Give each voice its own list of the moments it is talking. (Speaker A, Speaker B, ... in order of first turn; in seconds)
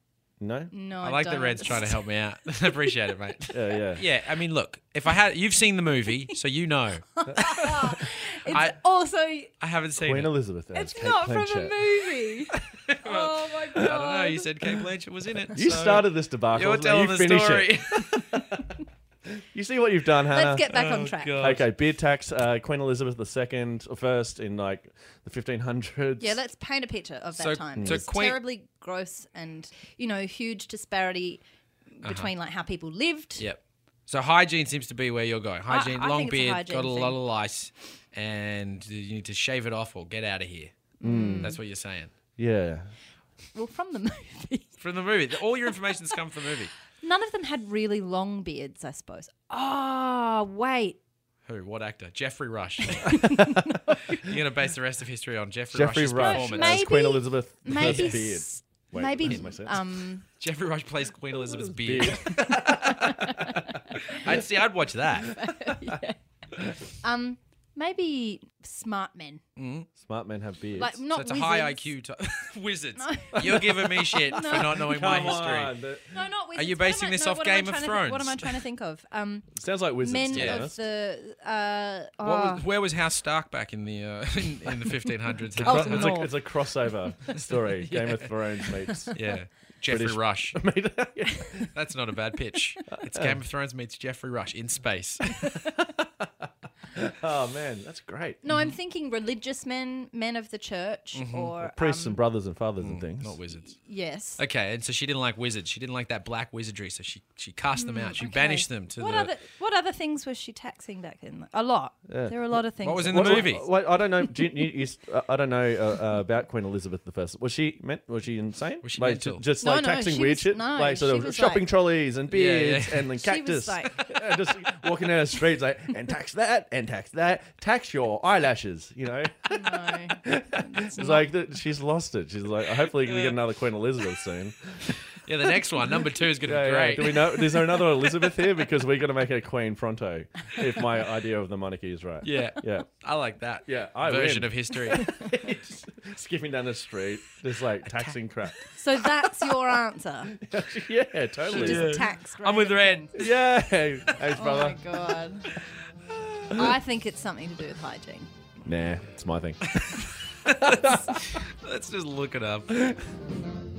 Speaker A: 0.4-0.7, 3.5-4.0, 10.0-11.9, 15.5-18.6, 19.5-26.4, 27.8-28.0, 41.0-41.6, 42.4-42.9, 55.7-59.8, 61.3-63.3, 70.0-71.0, 73.3-73.7, 74.6-76.1, 79.5-80.8, 85.6-89.1, 89.9-91.7, 92.9-93.4, 96.9-98.5, 101.6-103.4, 112.0-134.9, 136.4-142.9, 143.7-149.2, 150.4-152.0, 153.1-155.2, 158.6-160.0, 160.6-161.2
Speaker B: 0.7-2.1, 2.6-2.9, 7.2-9.5, 10.7-14.7, 20.3-21.5, 26.2-31.4, 32.0-33.5, 35.7-37.2, 41.0-41.6, 43.5-44.8, 47.0-51.0, 52.8-54.3, 56.1-60.2, 62.4-64.2, 65.2-66.2, 67.0-69.4, 70.7-72.0, 73.0-82.6, 85.6-87.1, 88.7-89.2, 98.4-102.2, 103.6-104.4, 107.8-113.5, 119.6-121.7, 123.1-124.3, 129.5-131.3, 144.9-145.3, 148.7-150.3, 151.5-153.2, 154.3-155.6, 156.5-158.3
Speaker C: 1.0-7.3, 8.4-8.7, 9.6-10.3, 12.9-18.5, 20.6-21.7, 27.3-28.4, 32.0-32.3, 33.4-40.7, 41.4-42.1, 44.8-46.7, 51.4-56.8, 57.7-58.2, 59.2-59.5, 60.3-63.3, 64.0-65.4, 69.5-69.9, 71.1-75.8, 76.5-78.5, 80.3-80.7, 82.2-86.3, 87.3-88.3, 89.1-90.6, 91.7-95.5, 101.1-101.5, 102.8-103.8, 104.4-109.3, 112.8-113.7, 118.8-119.5, 122.3-123.1, 133.0-133.4, 135.1-137.3, 142.2-145.1, 151.5-153.3, 159.7-162.9